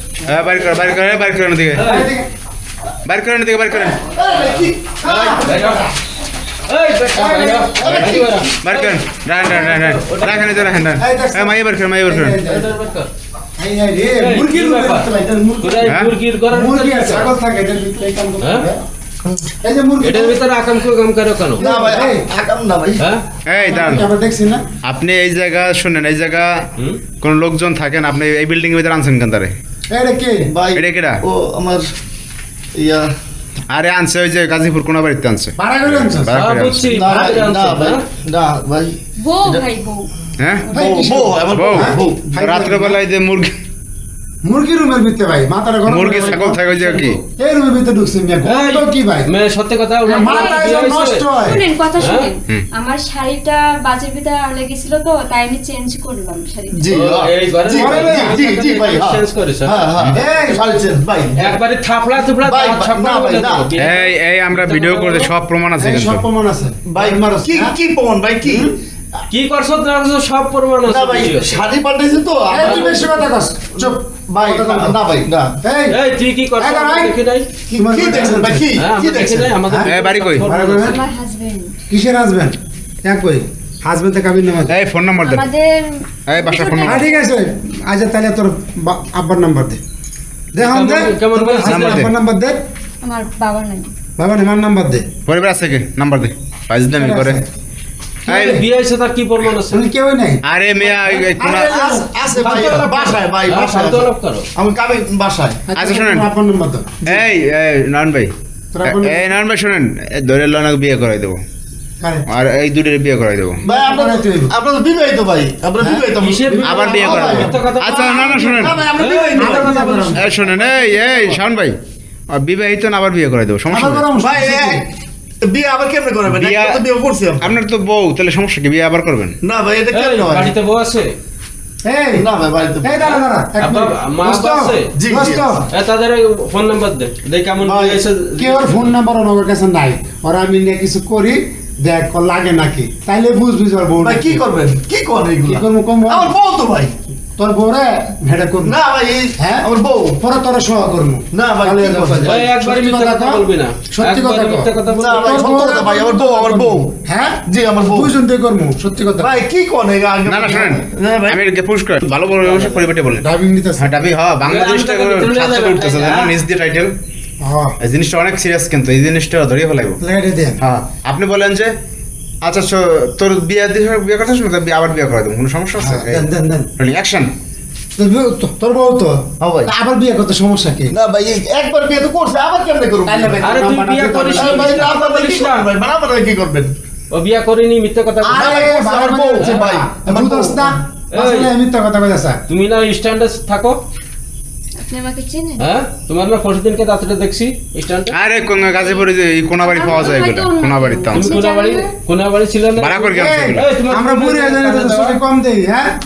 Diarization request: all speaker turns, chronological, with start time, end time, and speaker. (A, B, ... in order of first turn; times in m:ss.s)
0:00.3-0:01.8 A
0:01.8-0:02.1 B
0:01.8-0:02.3 C
0:03.1-0:04.0 A
0:04.0-0:05.6 D
0:05.0-0:05.9 C
0:05.2-0:05.9 B
0:06.7-0:10.7 B
0:07.1-0:07.8 C
0:07.7-0:08.6 D
0:07.9-0:12.4 A
0:11.0-0:12.8 C
0:12.4-0:13.1 B
0:13.6-0:18.8 C
0:14.2-0:15.1 B
0:15.6-0:17.3 B
0:18.4-0:18.7 B
0:19.6-0:20.4 C
0:20.0-0:21.7 B
0:21.6-0:23.0 D
0:21.6-0:22.3 C
0:23.0-0:23.2 B
0:23.5-0:24.1 A
0:23.6-0:24.7 C
0:24.8-0:26.6 A
0:27.2-0:29.5 A
0:29.9-0:30.5 C
0:30.5-0:31.9 D
0:30.7-0:31.2 A
0:32.8-0:33.1 D
0:33.7-0:37.0 A
0:35.6-0:36.4 C
0:36.3-0:38.0 B
0:36.9-0:39.7 D
0:39.2-0:40.1 E
0:40.4-0:40.6 A
0:40.7-0:42.3 D
0:40.7-0:43.0 C
0:41.6-0:43.5 A
0:44.4-0:46.6 C
0:45.9-0:47.2 A
0:46.1-0:47.2 B
0:47.4-0:49.3 C
0:48.4-0:51.3 B
0:50.1-0:51.6 C
0:50.1-0:50.6 E
0:51.4-0:56.9 E
0:52.0-0:52.3 B
0:56.7-1:01.6 D
0:56.9-1:00.1 B
0:57.8-0:58.4 C
1:00.1-1:00.6 C
1:01.4-1:05.3 B
1:02.4-1:03.7 D
1:03.8-1:06.3 A
1:05.8-1:07.8 C
1:06.9-1:08.7 D
1:08.4-1:08.7 C
1:09.3-1:11.6 B
1:10.9-1:15.6 D
1:12.5-1:15.0 C
1:12.5-1:13.1 B
1:15.6-1:16.0 C
1:15.9-1:17.5 B
1:16.6-1:17.1 C
1:17.7-1:19.6 D
1:17.8-1:18.7 C
1:18.8-1:21.0 B
1:19.9-1:20.4 A
1:20.4-1:21.0 C
1:20.8-1:21.8 E
1:21.9-1:24.8 C
1:24.7-1:25.5 A
1:25.2-1:27.2 E
1:26.3-1:27.0 A
1:26.8-1:29.8 C
1:30.5-1:32.6 C
1:30.6-1:32.1 B
1:31.6-1:32.1 A
1:33.0-1:33.9 E
1:34.2-1:35.1 C
1:35.3-1:37.4 A
1:36.9-1:37.4 C
1:38.3-1:38.6 C
1:38.3-1:39.9 B
1:39.7-1:40.4 C
1:40.4-1:41.7 A
1:40.8-1:41.4 B
1:41.4-1:42.8 C
1:41.6-1:45.6 D
1:42.3-1:44.5 B
1:45.7-1:47.0 C
1:45.8-1:46.3 A
1:47.0-1:47.3 D
1:47.1-1:48.3 A
1:48.7-1:49.4 C
1:48.8-1:51.4 A
1:52.0-1:52.3 C
1:52.3-1:53.6 A
1:53.6-1:54.5 C
1:53.6-2:01.4 D
1:55.8-1:57.5 C
1:56.2-2:01.3 B
1:56.7-1:57.2 A
1:57.8-1:58.7 A
1:58.7-2:00.3 C
2:00.2-2:01.7 A
2:02.3-2:04.1 A
2:03.7-2:04.8 C
2:04.2-2:04.9 D
2:05.4-2:07.6 D
2:06.4-2:06.8 A
2:07.4-2:09.4 A
2:09.4-2:10.5 D
2:09.9-2:11.1 B
2:11.8-2:12.3 C
2:12.2-2:13.2 D
2:12.8-2:15.6 C
2:13.6-2:14.9 B
2:14.9-2:15.6 D
2:15.7-2:19.0 B
2:17.6-2:18.0 D
2:18.4-2:24.4 C
2:24.0-2:27.0 D
2:25.5-2:26.3 C
2:27.4-2:28.8 C
2:28.6-2:30.2 D
2:29.4-2:29.6 C
2:30.2-2:39.4 C
2:31.3-2:32.4 D
2:32.2-2:35.7 B
2:34.9-2:36.9 D
2:37.5-2:38.1 D
2:39.2-2:41.4 D
2:40.3-2:43.2 A
2:43.2-2:43.9 C
2:43.8-2:46.9 A
2:44.4-2:46.3 B
2:47.4-2:47.8 C
2:47.8-2:50.0 A
2:50.0-2:50.6 C
2:50.6-2:51.7 A
2:52.4-2:56.2 A
2:55.8-2:56.7 C
2:56.8-2:57.3 A
2:58.0-3:01.0 C
2:59.4-2:59.7 D
3:00.9-3:03.4 D
3:03.1-3:04.9 C
3:03.4-3:05.7 B
3:04.2-3:06.7 D
3:07.1-3:08.7 B
3:08.2-3:12.4 C
3:08.3-3:10.7 D
3:09.4-3:09.6 B
3:11.1-3:11.5 B
3:12.5-3:13.8 B
3:14.8-3:15.6 E
3:15.6-3:18.2 B
3:18.1-3:21.3 A
3:18.5-3:21.9 E
3:21.1-3:25.2 B
3:22.8-3:23.6 A
3:23.1-3:25.9 C